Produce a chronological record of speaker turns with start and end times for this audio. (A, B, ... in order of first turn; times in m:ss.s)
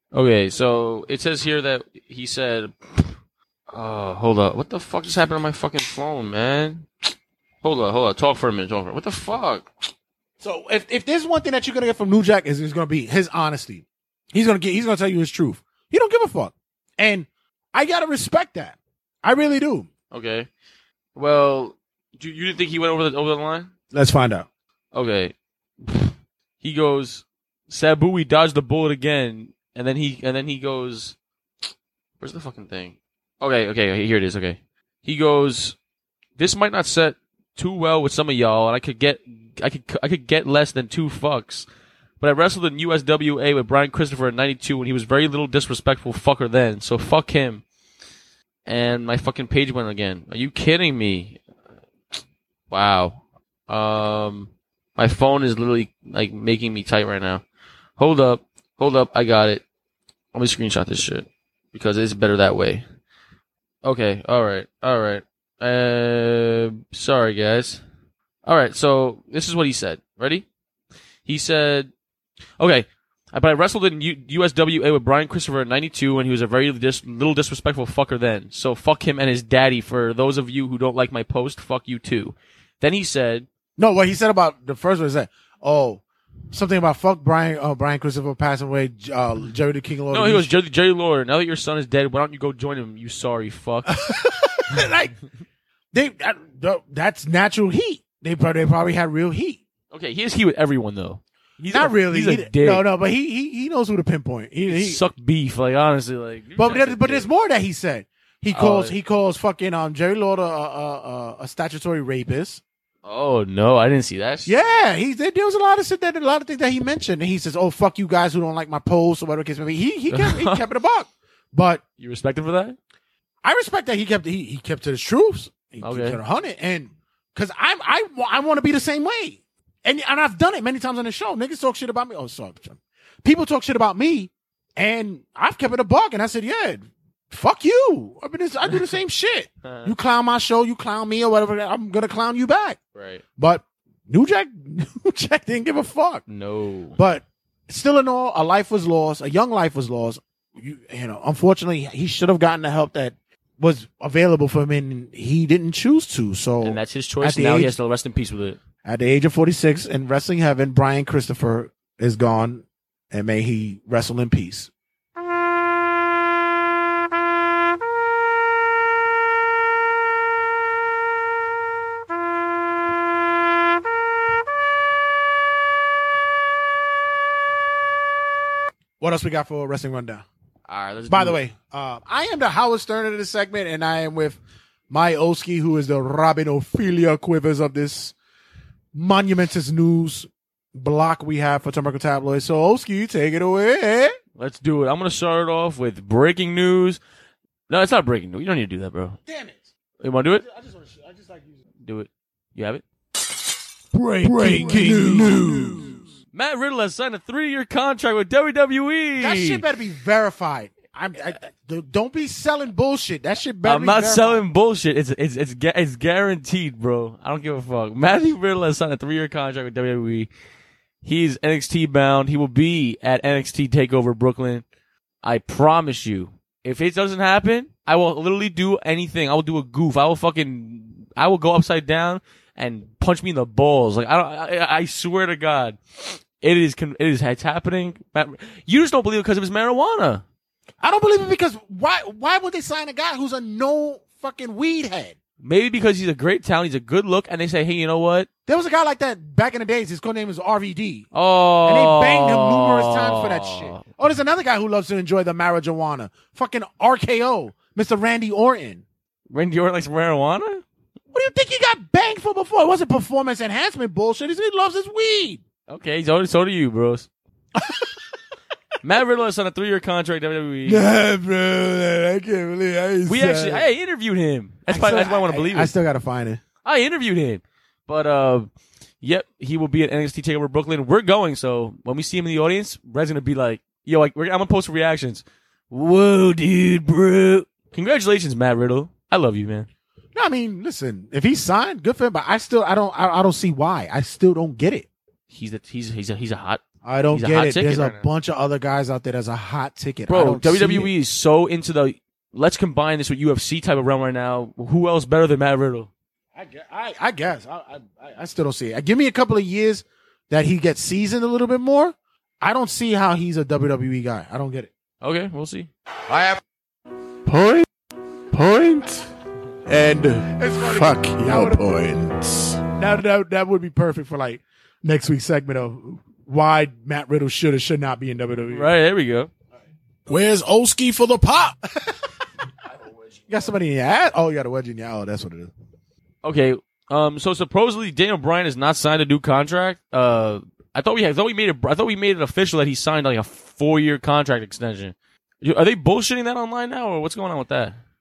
0:00.1-0:03.1 A
0:03.7-0:06.9 A
0:07.6-0:09.7 A
0:10.4-0:19.9 B
0:20.1-0:20.5 A
0:21.2-0:23.7 A
0:23.9-0:24.5 B
0:24.9-0:31.2 A
0:32.2-0:35.8 A
0:36.4-0:41.7 A
0:42.2-0:47.6 A
0:48.7-0:51.4 A
0:52.7-0:57.4 A
0:58.0-0:59.6 A
1:00.3-1:02.8 A
1:03.8-1:07.8 A
1:08.4-1:10.5 A
1:11.3-1:11.9 A
1:12.6-1:23.5 A
1:23.8-1:30.5 B
1:30.1-1:33.9 A
1:33.9-1:35.2 B
1:35.9-1:39.6 B
1:39.9-1:42.9 A
1:41.7-1:45.0 B
1:44.7-1:47.3 A
1:46.6-1:52.6 B
1:48.5-1:49.0 A
1:53.0-1:54.8 A
1:54.5-2:01.8 B
2:00.1-2:00.6 A
2:02.0-2:02.8 A
2:03.4-2:22.8 B
2:05.8-2:06.2 A
2:19.6-2:19.9 A
2:23.0-2:23.2 A
2:23.4-2:26.2 B
2:26.3-2:27.0 A
2:27.0-2:37.7 B
2:36.6-2:38.6 A
2:38.8-2:44.7 B
2:59.0-3:00.2 B
3:00.7-3:01.4 A
3:01.1-3:04.4 B
3:04.9-3:08.2 B
3:08.9-3:14.2 B
3:14.4-3:17.0 A
3:17.7-3:19.2 A
3:19.3-3:19.7 B
3:20.0-3:20.4 A
3:20.4-3:21.6 B
3:21.8-3:22.8 A
3:23.9-3:26.1 C
3:24.2-3:26.1 B
3:26.3-3:29.6 A
3:29.2-3:34.4 B
3:33.6-3:40.3 A
3:41.0-3:44.6 A
3:45.2-4:00.2 A
4:00.8-4:05.2 B
4:05.4-4:08.3 A
4:08.5-4:11.1 B
4:11.1-4:13.8 A
4:11.6-4:18.8 B
4:19.3-4:20.6 A
4:21.1-4:25.4 B
4:25.7-4:27.1 A
4:27.6-4:27.8 B
4:28.8-4:30.8 A
4:30.7-4:33.7 B
4:33.1-4:35.7 A
4:34.7-4:36.4 B
4:36.6-4:38.5 A
4:39.0-4:49.7 A
4:50.2-4:54.9 B
4:55.3-4:56.6 A
4:56.8-5:00.9 B
4:57.1-4:58.1 A
5:00.1-5:05.9 A
5:06.4-5:14.7 B
5:15.0-5:15.7 A
5:17.3-5:17.7 C
5:18.3-5:19.1 C
5:19.7-5:22.6 C
5:20.3-5:21.7 B
5:22.8-5:28.7 B
5:28.5-5:29.3 A
5:30.1-5:31.9 B
5:32.8-5:33.5 A
5:33.3-5:35.5 B
5:36.2-5:47.8 A